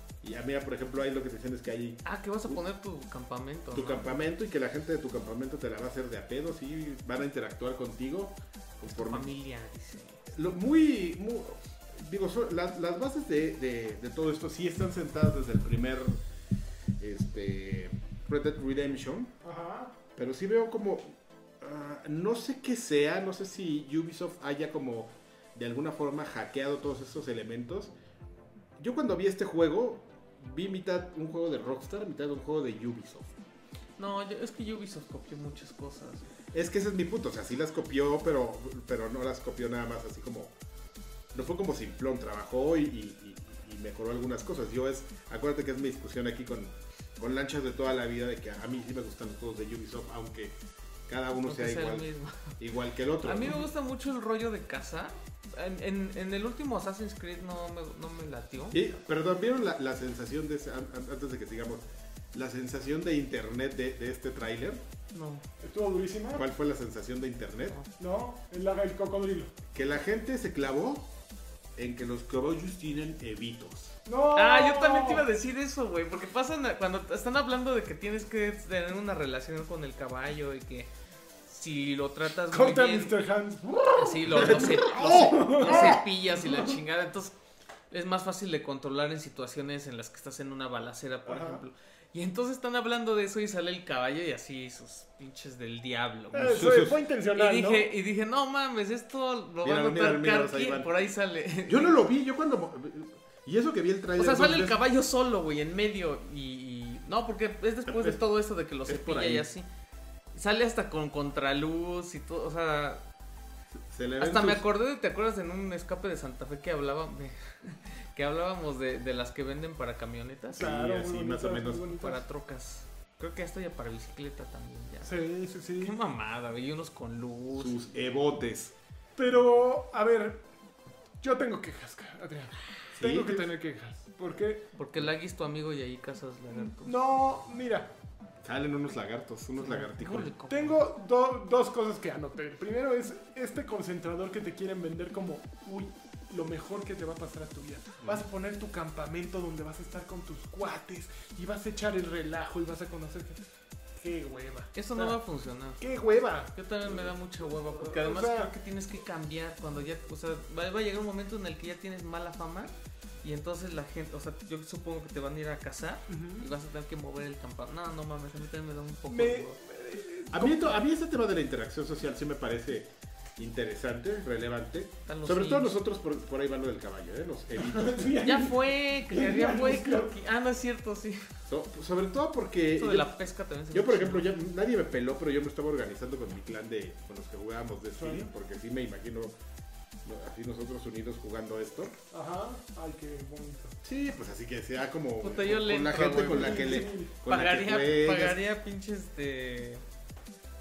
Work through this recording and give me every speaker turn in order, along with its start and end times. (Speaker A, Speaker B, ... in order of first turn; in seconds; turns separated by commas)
Speaker A: 0.2-2.6, Speaker B: 2.0-4.2, Speaker A: 3.7-9.3, Speaker B: 8.9-10.2, Speaker A: 10.3-16.2, Speaker A: 17.0-19.3, Speaker C: 19.4-19.9, Speaker A: 20.1-27.9, Speaker A: 28.8-33.3, Speaker B: 34.0-36.2, Speaker A: 36.5-40.5, Speaker A: 41.3-50.5, Speaker A: 51.1-52.1, Speaker B: 51.5-52.6, Speaker A: 52.6-53.7, Speaker B: 53.2-58.8, Speaker A: 58.7-64.8, Speaker B: 65.1-65.4, Speaker C: 65.6-66.4, Speaker A: 66.3-67.8, Speaker C: 68.0-69.5, Speaker A: 69.7-71.1, Speaker A: 71.8-74.0, Speaker C: 74.0-75.3, Speaker B: 74.3-80.9, Speaker B: 81.5-83.2, Speaker C: 82.5-86.7, Speaker B: 83.9-87.3, Speaker A: 84.3-86.0, Speaker B: 87.9-101.9, Speaker C: 91.2-91.6, Speaker C: 96.3-97.9, Speaker A: 96.5-97.0, Speaker A: 99.6-100.9, Speaker A: 101.6-104.8, Speaker B: 104.2-109.7, Speaker A: 107.8-108.2, Speaker A: 108.8-109.5, Speaker B: 110.3-113.0, Speaker A: 113.9-114.6, Speaker B: 114.2-120.6, Speaker C: 120.5-122.2, Speaker A: 120.5-121.9, Speaker B: 121.9-125.2, Speaker C: 125.0-125.9, Speaker B: 125.8-127.8, Speaker A: 127.5-128.7, Speaker C: 129.2-130.4, Speaker C: 131.2-134.6, Speaker A: 132.9-133.5, Speaker B: 134.7-136.9, Speaker C: 136.5-137.9, Speaker A: 138.4-140.3, Speaker B: 139.6-140.8, Speaker C: 140.5-155.2, Speaker B: 154.7-155.8, Speaker C: 155.8-156.5, Speaker B: 156.5-169.6, Speaker A: 156.9-157.1, Speaker C: 157.7-158.5, Speaker C: 166.1-166.5, Speaker C: 169.1-170.8, Speaker A: 170.3-178.2, Speaker B: 175.1-175.7, Speaker C: 177.6-180.1, Speaker B: 178.2-181.3, Speaker A: 181.5-183.1, Speaker B: 182.8-184.3, Speaker A: 183.7-189.3, Speaker C: 187.9-188.3, Speaker A: 190.0-191.9, Speaker C: 192.1-193.8, Speaker A: 193.8-198.4, Speaker B: 195.2-199.8, Speaker C: 196.3-197.1